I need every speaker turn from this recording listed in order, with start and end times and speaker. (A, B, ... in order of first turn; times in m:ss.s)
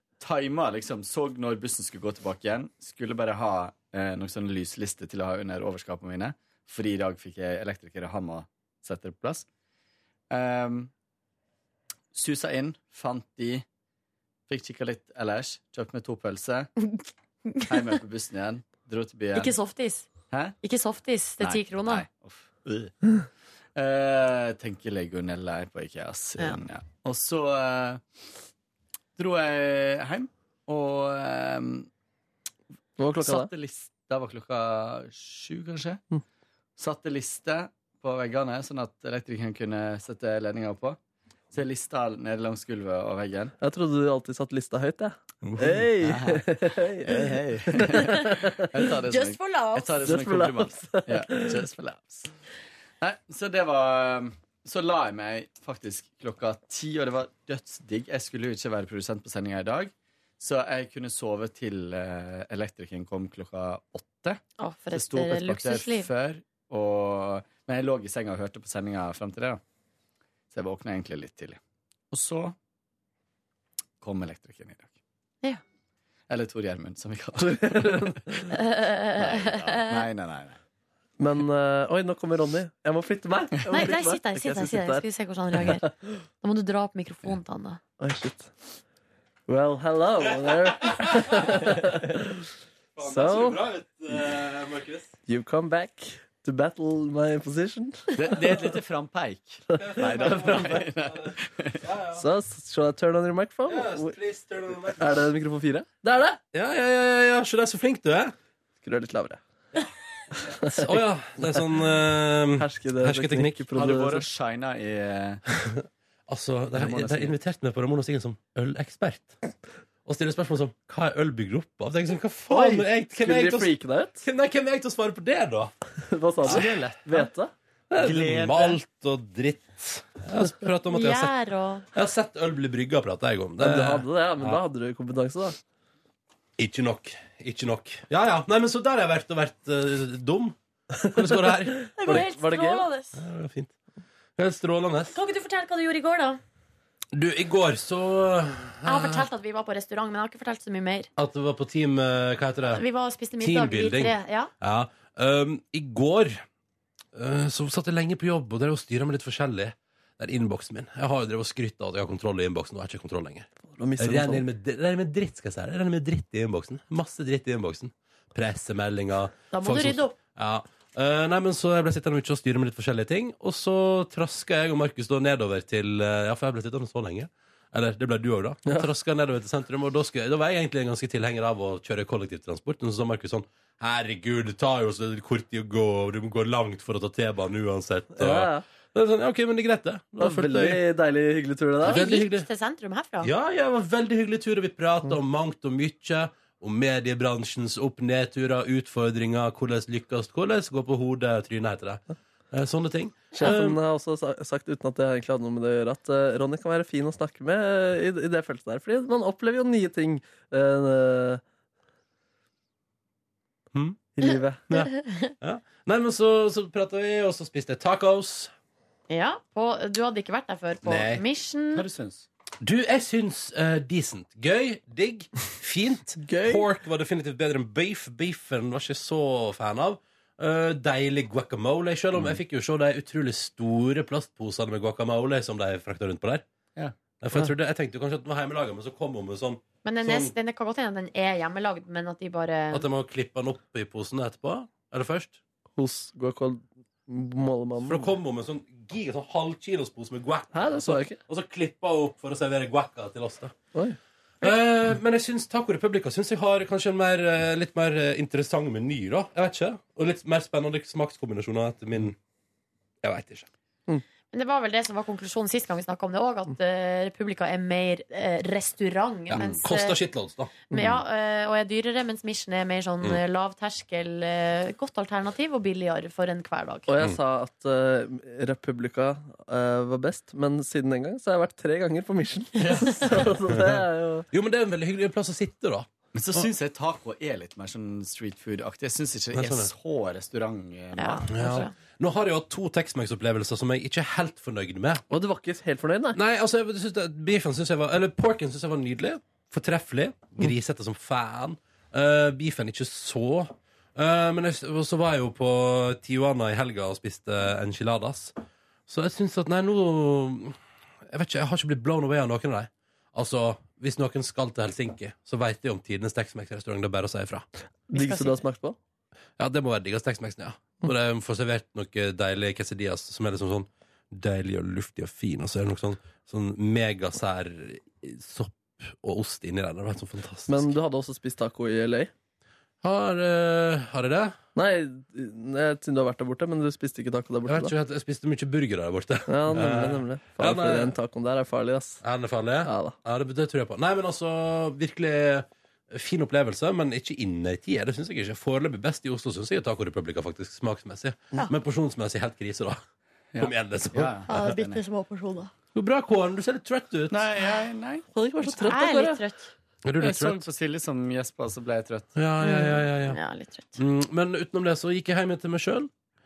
0:00.2-0:09.5 A
0:10.3-0:10.9 A
0:12.1-0:13.6 A
0:14.5-0:16.7 A
0:17.5-0:17.9 B
0:17.7-0:19.6 A
0:19.3-0:20.1 B
0:20.3-0:20.6 A
0:20.6-0:22.0 B
0:21.4-0:22.9 A
0:23.8-0:28.0 A
0:29.2-0:31.9 A
0:33.0-0:33.5 C
0:33.2-0:36.0 A
0:36.8-0:41.0 A
0:41.5-0:43.6 A
0:43.6-0:48.7 C
0:45.4-0:46.5 A
0:47.0-0:52.3 A
0:48.0-0:48.3 B
0:49.0-0:50.0 B
0:50.0-0:51.6 C
0:53.0-1:04.4 A
1:04.6-1:06.1 B
1:04.9-1:09.6 A
1:10.5-1:11.6 A
1:12.1-1:12.6 A
1:14.0-1:14.9 A
1:16.3-1:18.5 A
1:17.4-1:18.5 C
1:18.5-1:20.0 B
1:19.2-1:20.6 A
1:21.2-1:25.0 C
1:23.7-1:25.9 B
1:25.6-1:25.9 C
1:26.4-1:27.8 B
1:28.0-1:28.6 C
1:29.5-1:32.5 C
1:30.9-1:31.7 D
1:33.0-1:35.1 D
1:33.0-1:33.6 C
1:35.3-1:38.3 C
1:38.2-1:41.8 A
1:39.8-1:40.8 C
1:39.8-1:42.3 D
1:42.2-1:44.2 C
1:43.7-1:45.1 D
1:45.0-1:46.4 C
1:46.5-1:48.4 D
1:48.8-1:49.4 C
1:50.4-1:51.7 C
1:50.6-1:53.7 D
1:52.6-1:54.3 C
1:53.7-1:55.4 A
1:55.5-1:59.4 D
1:56.8-1:57.3 C
2:00.1-2:05.7 D
2:02.5-2:04.3 C
2:06.1-2:07.5 C
2:06.4-2:07.3 D
2:07.9-2:11.3 D
2:08.0-2:08.8 A
2:10.9-2:11.8 B
2:11.9-2:14.6 D
2:13.6-2:15.6 C
2:16.6-2:22.2 D
2:21.0-2:22.9 C
2:22.0-2:23.2 B
2:23.2-2:23.7 D
2:24.4-2:25.2 D
2:25.1-2:26.4 B
2:27.1-2:29.3 D
2:28.9-2:31.1 B
2:31.2-2:32.8 D
2:32.7-2:34.5 B
2:33.4-2:36.4 D
2:37.1-2:43.5 D
2:43.8-2:44.4 C
2:44.0-3:10.8 D
2:49.5-2:50.1 B
3:08.2-3:08.6 C
3:10.2-3:12.0 C
3:11.8-3:12.5 D
3:11.8-3:13.3 B
3:13.2-3:23.8 D
3:23.4-3:31.4 C
3:33.7-3:34.1 D
3:34.2-3:34.7 C
3:34.7-3:38.5 D
3:39.1-3:41.9 B
3:40.8-3:41.2 D
3:41.8-3:42.3 A
3:42.6-3:56.4 D
3:46.2-3:46.6 C
3:57.2-4:00.3 D
3:59.8-4:02.9 B
4:02.7-4:05.4 D
4:05.8-4:08.1 C
4:07.8-4:13.6 D
4:10.5-4:11.2 C
4:14.4-4:22.2 D
4:23.0-4:23.5 D
4:24.3-4:30.0 B
4:29.4-4:30.5 D
4:29.4-4:29.6 A
4:30.7-4:36.9 B
4:36.9-4:44.3 C
4:42.6-4:43.0 A
4:42.7-4:43.0 B
4:43.5-4:43.8 D
4:44.3-4:46.5 D
4:46.1-4:51.6 A
4:49.3-4:49.7 D
4:51.0-4:51.7 B
4:51.3-4:55.0 D
4:55.1-4:56.2 C
4:56.1-5:08.3 D
5:08.9-5:17.5 D
5:17.9-5:18.8 C
5:18.0-5:18.4 B
5:19.4-5:30.7 D
5:30.5-5:32.1 C
5:32.8-5:34.4 D
5:34.6-5:37.7 C
5:37.5-5:41.0 D
5:39.3-5:42.0 C
5:42.0-5:52.8 D
5:42.6-5:43.0 C
5:53.3-5:54.8 A
5:53.4-5:54.5 D
5:54.3-5:55.5 B
5:55.7-5:57.2 D
5:57.1-5:58.0 A
5:58.1-5:59.2 C
5:58.5-5:59.5 B
5:59.8-6:00.5 D
6:00.0-6:02.1 A
6:02.2-6:03.2 D
6:02.4-6:03.8 B
6:03.8-6:05.9 D